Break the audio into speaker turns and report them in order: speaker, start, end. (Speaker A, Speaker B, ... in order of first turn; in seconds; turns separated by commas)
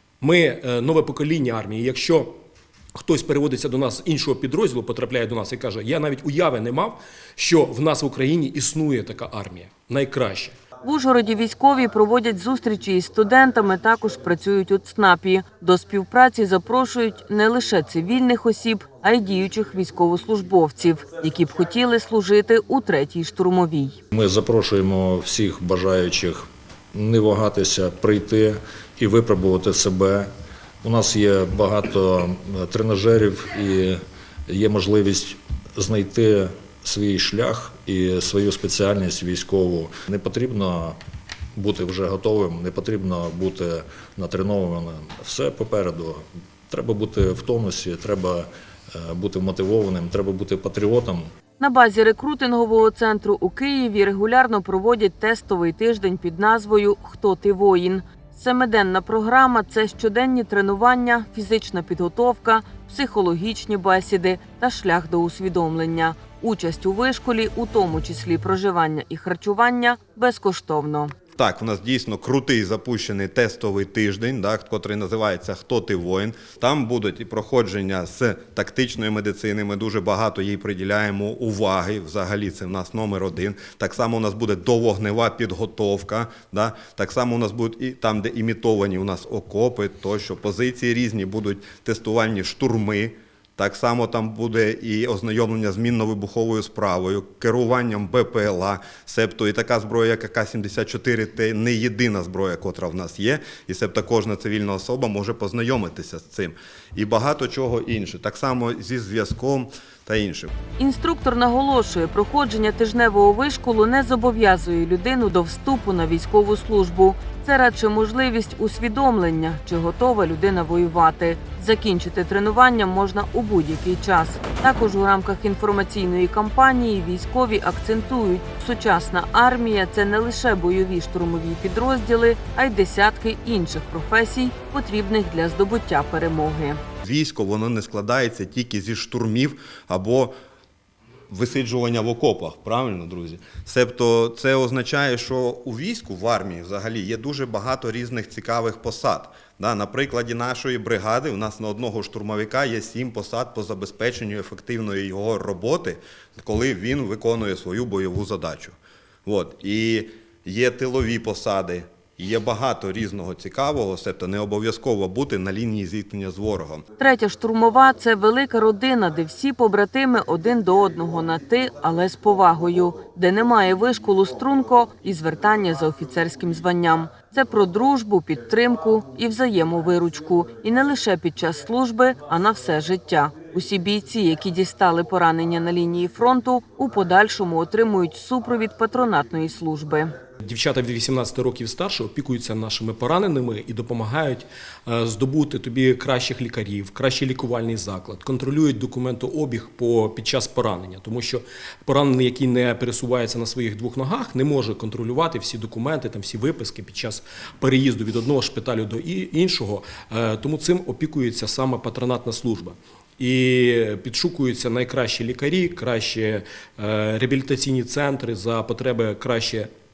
Speaker A: 0.2-2.4, Speaker A: 2.9-10.6, Speaker B: 10.8-24.0, Speaker C: 24.1-30.3, Speaker C: 30.8-41.0, Speaker C: 41.6-51.3, Speaker B: 51.6-71.1, Speaker D: 71.4-110.5, Speaker B: 110.8-136.8, Speaker D: 137.0-140.3, Speaker D: 141.3-166.8, Speaker B: 167.0-190.2, Speaker A: 190.4-219.7